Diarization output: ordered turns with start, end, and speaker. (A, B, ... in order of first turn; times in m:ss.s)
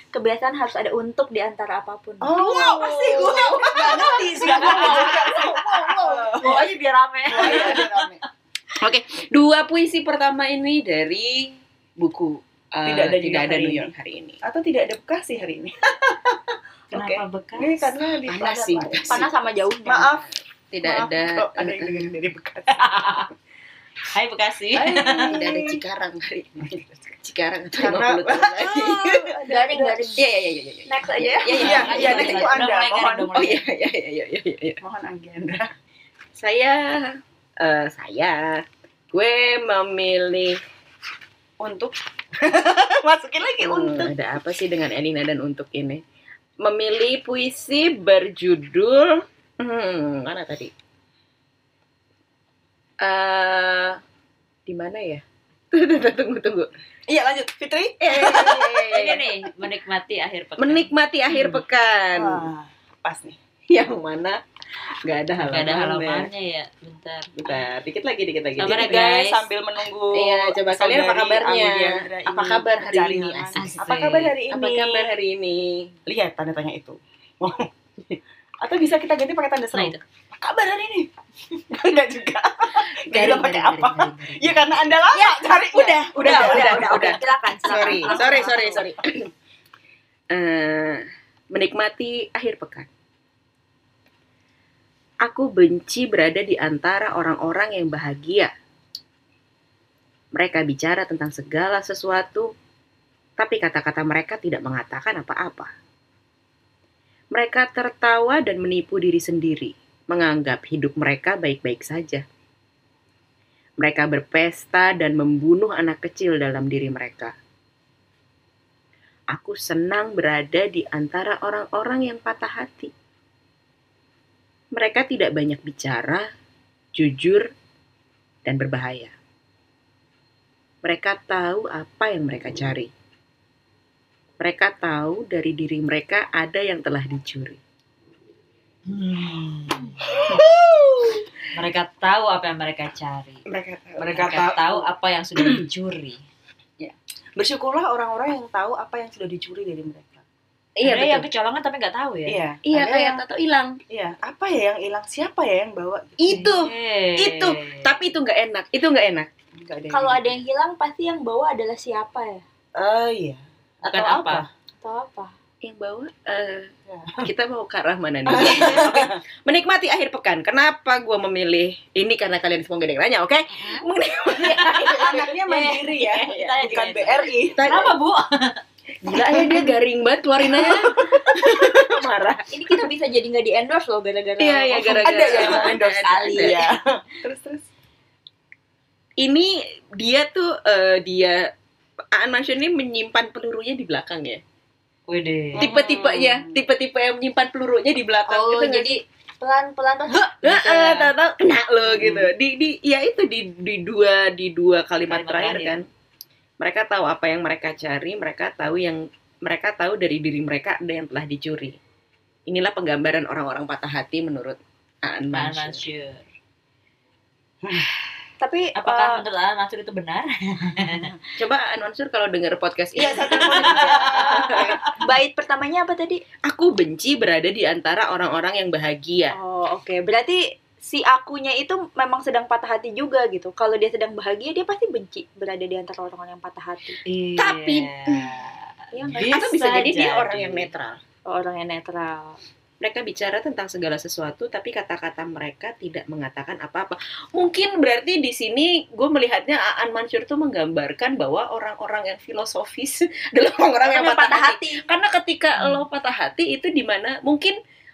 0:00.1-0:05.2 A
0:02.2-0:06.6 B
0:02.5-0:05.0 C
0:03.8-0:05.5 D
0:05.9-0:06.3 A
0:06.4-0:08.1 D
0:07.2-0:08.2 B
0:08.8-0:14.4 C
0:12.8-0:13.9 B
0:14.4-0:19.3 B
0:16.9-0:17.9 D
0:18.3-0:19.3 C
0:19.1-0:20.1 A
0:19.8-0:20.3 B
0:20.7-0:22.1 C
0:20.8-0:22.9 B
0:22.7-0:23.3 D
0:24.1-0:25.4 D
0:24.7-0:25.8 B
0:25.1-0:26.7 C
0:26.6-0:27.0 B
0:27.2-0:29.4 C
0:27.8-0:30.1 B
0:29.4-0:30.2 A
0:30.2-0:32.5 C
0:30.9-0:32.4 A
0:31.5-0:33.6 D
0:31.6-0:33.3 B
0:33.4-0:34.8 C
0:34.8-0:35.7 B
0:36.4-0:40.6 C
0:41.6-0:44.1 B
0:43.6-0:46.0 C
0:46.6-0:50.7 C
0:53.0-0:54.0 C
0:54.7-0:56.7 C
0:57.1-0:59.0 B
0:58.0-0:59.3 C
0:58.9-1:00.9 D
1:00.6-1:02.5 C
1:02.1-1:03.4 B
1:03.7-1:04.4 C
1:05.0-1:06.3 C
1:05.4-1:07.4 D
1:07.4-1:09.0 C
1:08.6-1:09.5 D
1:08.6-1:15.1 B
1:10.1-1:15.9 C
1:13.6-1:13.9 D
1:16.1-1:28.5 B
1:19.7-1:20.0 D
1:22.7-1:24.8 C
1:25.5-1:28.9 A
1:26.0-1:29.3 C
1:30.3-1:32.9 C
1:35.2-1:38.5 C
1:40.4-1:42.5 C
1:43.4-1:45.7 C
1:47.3-1:52.2 C
1:53.8-1:57.3 C
1:59.3-2:02.9 C
2:04.7-2:06.3 C
2:07.0-2:07.5 C
2:08.4-2:09.1 C
2:10.8-2:12.9 C
2:14.4-2:17.6 C
2:18.9-2:20.0 D
2:20.1-2:20.4 C
2:20.2-2:20.5 B
2:21.6-2:23.4 D
2:23.5-2:24.9 B
2:24.0-2:26.2 D
2:25.4-2:25.6 B
2:26.8-2:30.2 B
2:30.8-2:31.3 C
2:30.8-2:32.4 D
2:32.3-2:33.2 B
2:32.7-2:33.8 C
2:33.9-2:36.5 B
2:36.2-2:39.3 C
2:36.3-2:37.9 D
2:39.6-2:40.4 B
2:39.9-2:42.4 A
2:42.8-2:44.5 B
2:43.9-2:44.4 D
2:44.8-2:45.3 A
2:45.6-2:46.7 C
2:46.9-2:47.3 B
2:47.2-2:56.8 C
2:48.3-2:49.2 B
2:54.4-2:58.6 D
2:54.9-2:57.7 B
2:57.4-2:57.9 C
2:59.0-3:02.4 C
2:59.1-2:59.7 B
3:00.4-3:01.9 B
3:02.5-3:05.8 A
3:04.4-3:06.6 C
3:04.8-3:07.7 B
3:09.2-3:11.5 C
3:12.1-3:14.4 C
3:15.1-3:15.7 D
3:15.6-3:19.0 C
3:15.6-3:16.4 A
3:18.3-3:21.1 A
3:20.4-3:25.9 C
3:25.1-3:25.8 D
3:26.6-3:31.8 C
3:32.5-3:35.8 C
3:35.3-3:36.3 D
3:37.6-3:37.9 B
3:38.4-3:39.2 A
3:38.8-3:41.1 D
3:41.4-3:44.8 C
3:43.0-3:44.8 B
3:43.0-3:43.3 A
3:43.4-3:44.9 D
3:45.0-3:46.2 A
3:46.5-3:49.4 C
3:49.3-3:57.0 A
3:57.1-4:00.7 D
3:57.4-3:58.4 C
3:58.9-3:59.3 A
3:59.2-4:01.0 C
4:01.3-4:02.4 A
4:02.8-4:17.6 C
4:13.8-4:14.8 A